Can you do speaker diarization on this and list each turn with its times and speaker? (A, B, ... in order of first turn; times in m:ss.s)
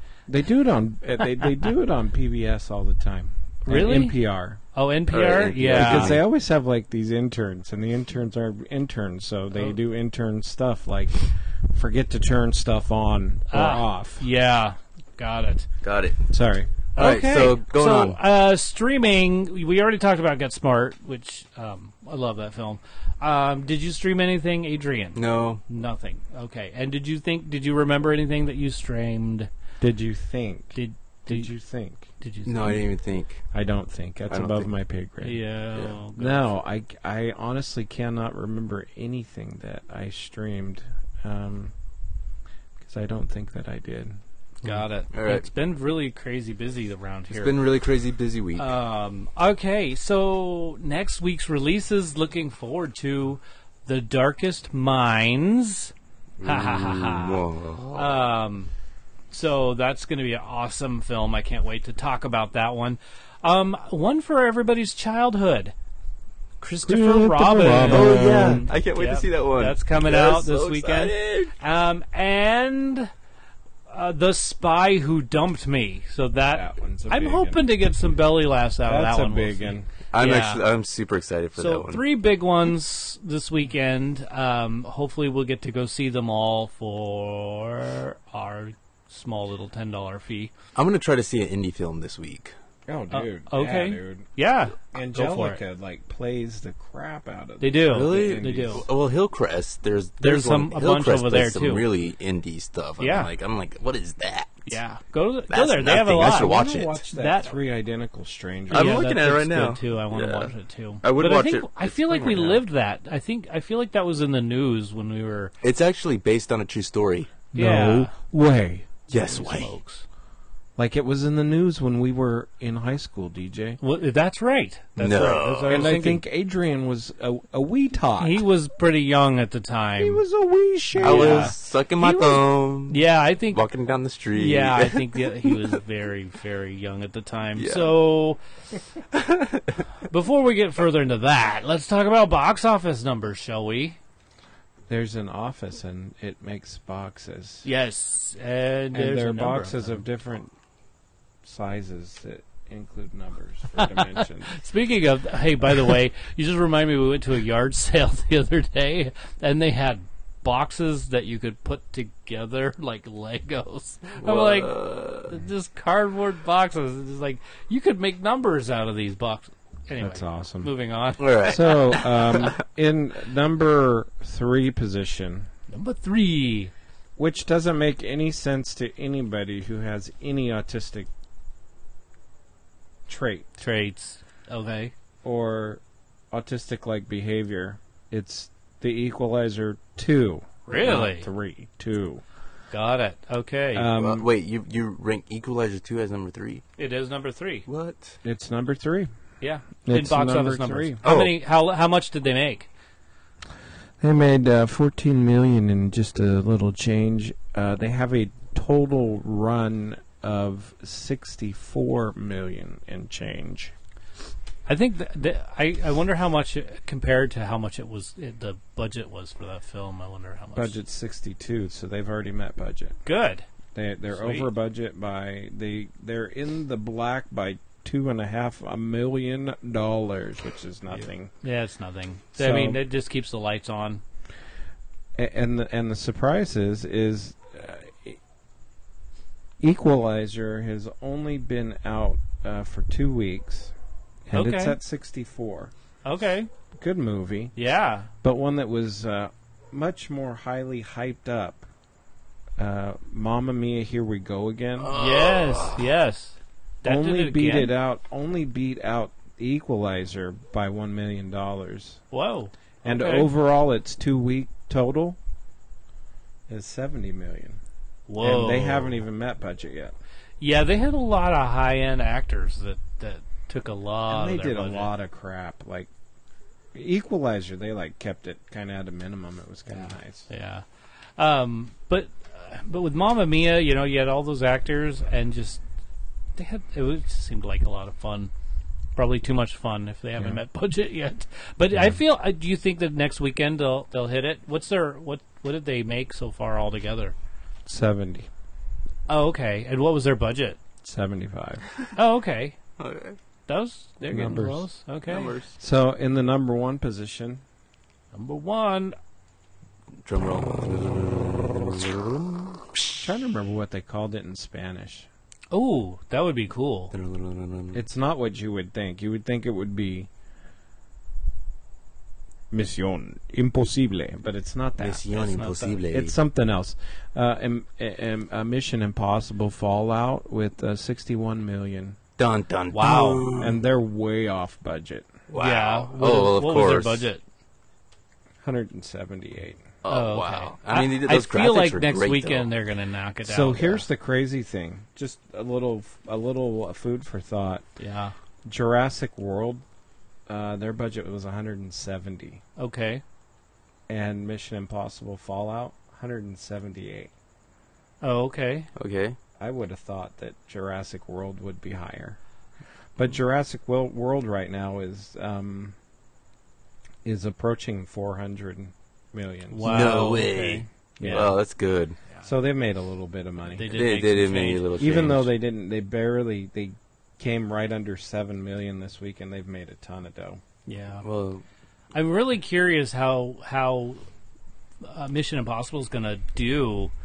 0:00.3-0:04.6 A
0:03.7-0:04.2 B
0:04.7-0:06.2 B
0:05.1-0:06.2 C
0:05.7-0:14.3 A
0:13.5-0:15.7 B
0:15.8-0:16.2 C
0:16.3-0:16.7 A
0:17.0-0:29.5 B
0:17.0-0:18.2 C
0:25.2-0:25.6 C
0:29.8-0:32.1 A
0:30.7-0:31.5 B
0:32.2-0:32.8 B
0:32.4-0:33.4 C
0:33.5-0:35.4 A
0:34.3-0:34.7 C
0:35.2-0:36.6 B
0:36.2-0:41.8 A
0:42.8-0:44.2 A
0:44.6-0:47.6 B
0:45.1-0:45.5 C
0:47.3-0:48.7 C
0:48.6-0:58.7 B
0:56.4-0:58.3 C
0:59.3-1:05.7 B
1:06.6-1:13.1 B
1:06.8-1:08.7 A
1:07.8-1:11.5 C
1:13.9-1:20.6 B
1:16.5-1:17.6 A
1:18.9-1:19.9 A
1:20.1-1:22.0 C
1:21.6-1:30.5 B
1:30.8-1:32.6 C
1:32.9-1:34.3 A
1:33.1-1:35.6 B
1:34.9-1:38.8 A
1:37.6-1:38.9 B
1:37.9-1:44.8 C
1:40.2-1:41.8 B
1:43.0-1:43.3 B
1:44.7-1:47.6 B
1:45.5-1:47.0 C
1:46.2-1:49.1 A
1:48.7-1:55.5 B
1:48.7-1:50.5 C
1:51.0-1:52.6 C
1:55.6-1:57.4 C
1:57.5-1:58.9 A
1:57.5-1:58.1 B
1:59.1-1:59.8 C
1:59.1-2:00.0 B
2:00.8-2:03.8 A
2:03.8-2:06.2 B
2:05.0-2:06.1 C
2:05.7-2:08.4 A
2:08.2-2:10.2 B
2:10.0-2:11.5 A
2:11.0-2:12.1 B
2:11.0-2:15.8 C
2:12.0-2:12.4 A
2:12.9-2:13.6 B
2:14.4-2:18.4 B
2:17.6-2:18.0 C
2:19.1-2:19.8 C
2:20.1-2:24.0 B
2:24.9-2:27.7 A
2:27.6-2:30.0 B
2:28.9-2:30.5 A
2:31.4-2:34.6 A
2:33.8-2:51.6 B
2:44.2-2:45.4 C
2:50.0-2:50.7 A
2:51.2-2:52.6 C
2:51.4-2:55.5 A
2:55.7-2:56.7 B
2:57.2-3:01.1 A
3:03.1-3:03.6 A
3:03.6-3:04.9 B
3:05.2-3:12.2 A
3:10.7-3:11.3 B
3:12.7-3:13.9 B
3:13.7-3:14.3 A
3:14.0-3:16.6 C
3:16.8-3:17.7 B
3:17.7-3:18.2 C
3:18.2-3:19.1 A
3:19.4-3:22.7 B
3:19.8-3:21.0 A
3:21.0-3:21.3 C
3:24.0-3:33.7 A
3:34.7-3:40.8 B
3:40.6-3:43.0 A
3:43.0-3:43.5 B
3:43.7-3:51.3 A
3:44.1-3:44.5 B
3:50.9-3:54.0 B
3:52.4-3:52.8 A
3:55.2-3:58.2 A
3:59.6-4:03.8 A
4:04.3-4:05.7 A
4:04.3-4:04.8 B
4:06.0-4:06.5 B
4:06.7-4:07.5 A
4:07.6-4:08.1 B
4:08.2-4:11.7 A
4:12.6-4:14.9 A
4:14.8-4:15.9 C
4:14.9-4:17.7 B
4:16.8-4:22.0 A
4:22.1-4:23.3 B
4:22.8-4:25.2 A
4:26.5-4:27.6 A
4:28.1-4:29.0 B
4:28.2-4:30.0 A
4:30.4-4:34.9 B
4:34.1-4:35.9 A
4:36.7-4:40.3 A
4:39.7-4:40.6 B
4:41.2-4:45.6 B
4:46.4-4:48.3 B
4:49.0-4:57.2 B
4:50.2-4:50.4 A
4:57.7-4:58.3 A
4:59.1-5:00.6 B
5:00.8-5:01.7 A
5:01.9-5:02.6 B
5:02.8-5:03.2 C
5:03.5-5:05.3 B
5:04.1-5:04.7 A
5:05.1-5:05.6 C
5:05.6-5:07.4 A
5:08.1-5:09.0 B
5:10.0-5:13.0 C
5:13.0-5:15.1 A
5:15.5-5:16.9 B
5:16.9-5:17.8 C
5:17.7-5:20.1 A
5:22.5-5:25.0 A
5:24.8-5:26.2 C
5:25.1-5:25.8 B
5:25.9-5:32.0 A
5:32.2-5:33.6 C
5:32.7-5:33.3 B
5:33.4-5:35.1 A
5:35.3-5:37.1 C
5:35.3-5:37.2 B
5:38.4-5:39.7 A
5:39.8-5:42.5 C
5:39.9-5:43.8 B
5:43.2-5:47.7 A
5:47.8-5:48.2 B
5:48.5-5:49.6 A
5:50.3-5:52.4 A
5:52.6-5:53.0 B
5:53.9-5:57.1 A
5:58.0-5:58.7 B
5:58.8-5:59.2 C
5:59.4-6:02.2 A
6:03.0-6:05.8 A
6:07.0-6:10.0 A
6:09.5-6:11.3 B
6:09.6-6:12.0 C
6:11.0-6:11.4 A
6:12.2-6:13.7 A
6:13.5-6:15.3 B
6:13.7-6:15.3 C
6:14.8-6:20.4 A
6:20.7-6:21.0 B
6:21.0-6:21.4 C
6:21.9-6:24.0 B
6:24.8-6:26.9 B